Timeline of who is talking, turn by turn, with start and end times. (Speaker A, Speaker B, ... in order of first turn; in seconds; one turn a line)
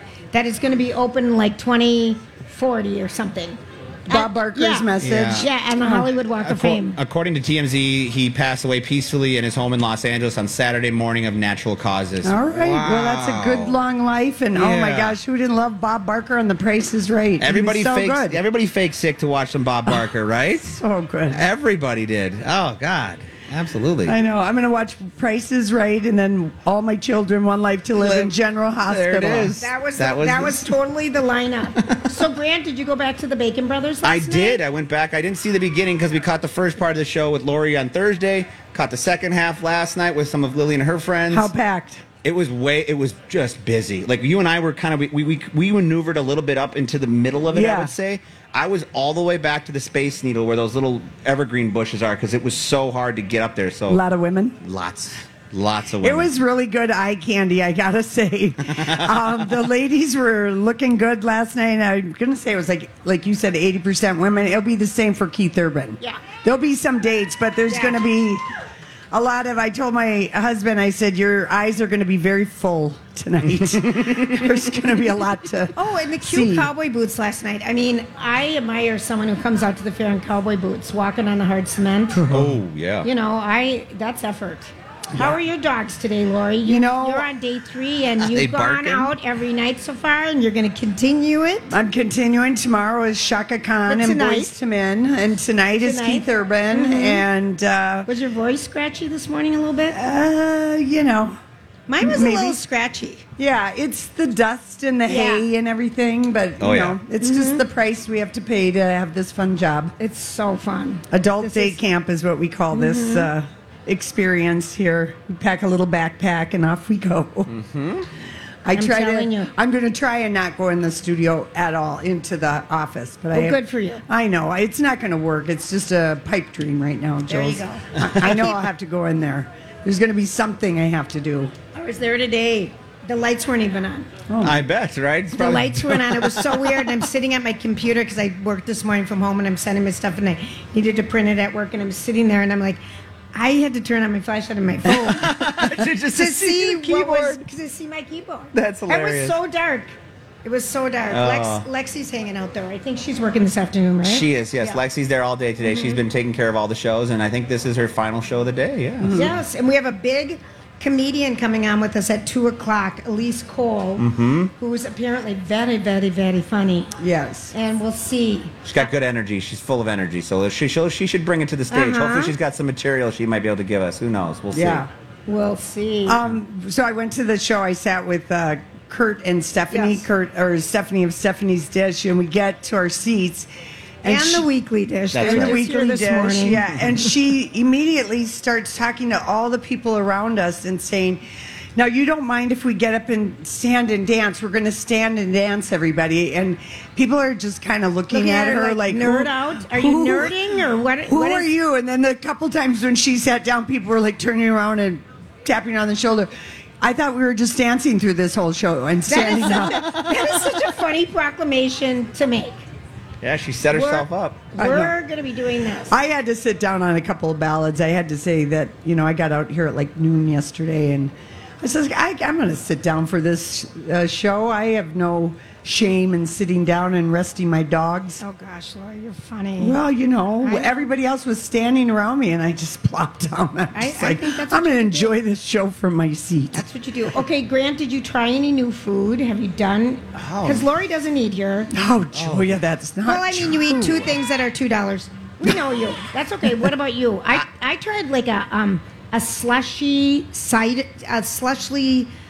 Speaker A: 0.3-7.0
Speaker B: 4.1-6.1
Speaker C: 5.0-5.5
Speaker C: 6.4-13.8
Speaker B: 12.2-18.4
Speaker C: 14.5-15.2
Speaker C: 17.4-20.7
Speaker B: 20.6-21.4
Speaker C: 21.3-24.2
Speaker B: 24.0-29.5
Speaker C: 28.0-28.3
Speaker C: 28.9-30.7
Speaker A: 29.6-34.6
Speaker C: 34.0-41.5
Speaker B: 41.3-42.0
Speaker C: 42.2-54.0
Speaker B: 47.5-47.9
Speaker B: 53.9-54.6
Speaker C: 54.6-56.3
Speaker B: 56.0-68.4
Speaker C: 58.8-59.1
Speaker A: 67.7-68.0
Speaker B: 69.1-76.7
Speaker A: 75.8-82.2
Speaker B: 82.1-82.6
Speaker C: 82.3-83.1
Speaker A: 83.0-91.8
Speaker B: 86.6-87.3
Speaker C: 88.2-89.1
Speaker B: 91.7-98.1
Speaker A: 93.9-94.5
Speaker A: 95.8-97.2
Speaker A: 98.0-100.0
Speaker B: 99.9-101.4
Speaker A: 101.9-103.2
Speaker B: 102.0-102.6
Speaker B: 103.4-109.9
Speaker A: 105.1-105.5
Speaker C: 106.6-107.0
Speaker A: 107.2-107.6
Speaker A: 110.0-111.8
Speaker B: 111.1-117.5
Speaker A: 112.7-113.3
Speaker C: 117.5-118.0
Speaker B: 118.6-131.5
Speaker A: 118.7-119.5
Speaker A: 123.3-124.0
Speaker A: 127.3-127.9
Speaker A: 131.7-134.1
Speaker B: 134.3-134.6
Speaker C: 134.4-136.9
Speaker A: 135.3-142.8
Speaker A: 143.3-145.3
Speaker C: 144.9-147.4
Speaker A: 146.1-149.9
Speaker C: 148.5-149.4
Speaker A: 150.4-154.8
Speaker C: 151.1-151.6
Speaker C: 154.0-159.2
Speaker A: 155.6-156.0
Speaker B: 159.0-159.4
Speaker A: 159.1-166.9
Speaker C: 164.0-164.5
Speaker B: 167.0-167.5
Speaker A: 167.5-168.5
Speaker C: 168.6-174.9
Speaker A: 171.7-172.3
Speaker B: 174.5-174.9
Speaker A: 175.3-176.2
Speaker B: 176.1-183.5
Speaker A: 179.7-180.0
Speaker B: 184.0-184.5
Speaker A: 184.0-186.7
Speaker C: 185.1-185.6
Speaker B: 185.2-191.2
Speaker B: 191.7-200.4
Speaker A: 198.1-201.5
Speaker B: 201.1-210.0
Speaker A: 209.1-212.6
Speaker C: 213.2-214.5
Speaker A: 213.7-215.9
Speaker B: 214.6-214.9
Speaker B: 215.9-228.2
Speaker A: 228.2-229.8
Speaker B: 229.6-236.6
Speaker A: 230.4-230.9
Speaker A: 233.7-235.2
Speaker A: 236.5-241.7
Speaker C: 240.1-240.7
Speaker B: 241.7-244.1
Speaker C: 242.1-242.6
Speaker A: 243.1-252.1